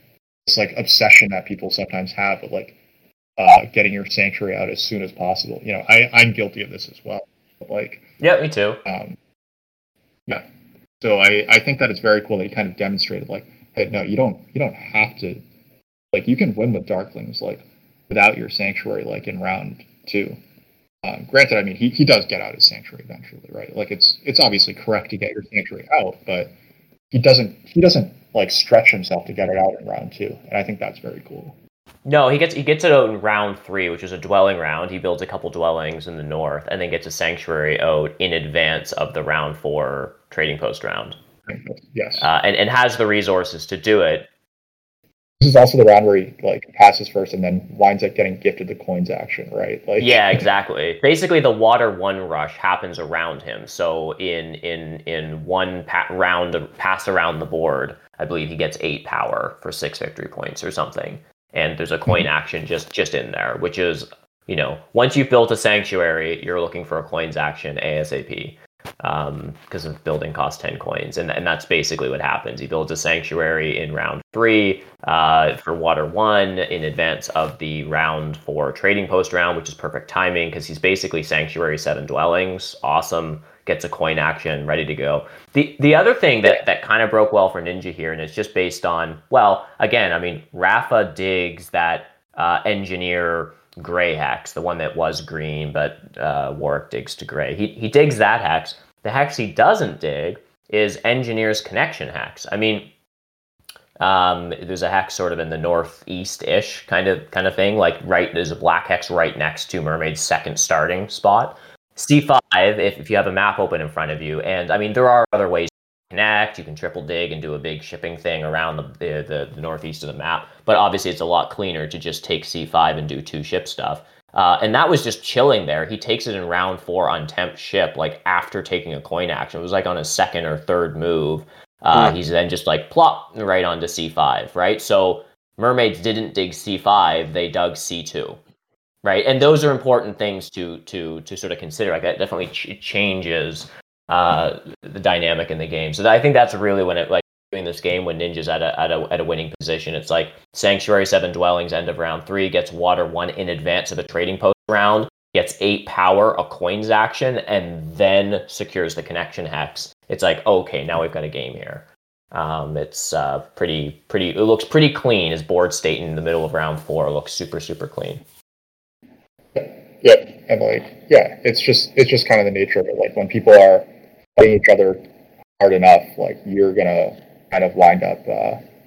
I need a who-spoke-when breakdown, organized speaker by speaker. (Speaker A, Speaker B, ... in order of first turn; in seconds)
Speaker A: 0.5-2.8, 3.4-8.0, 8.8-9.2, 11.0-15.4, 16.1-20.4, 21.0-26.5, 27.1-31.5, 41.5-42.3, 45.4-50.5, 169.5-175.0, 175.6-178.6
Speaker B: 8.2-8.8, 32.0-41.2, 42.2-44.3, 50.0-102.9, 104.0-138.4, 139.0-168.2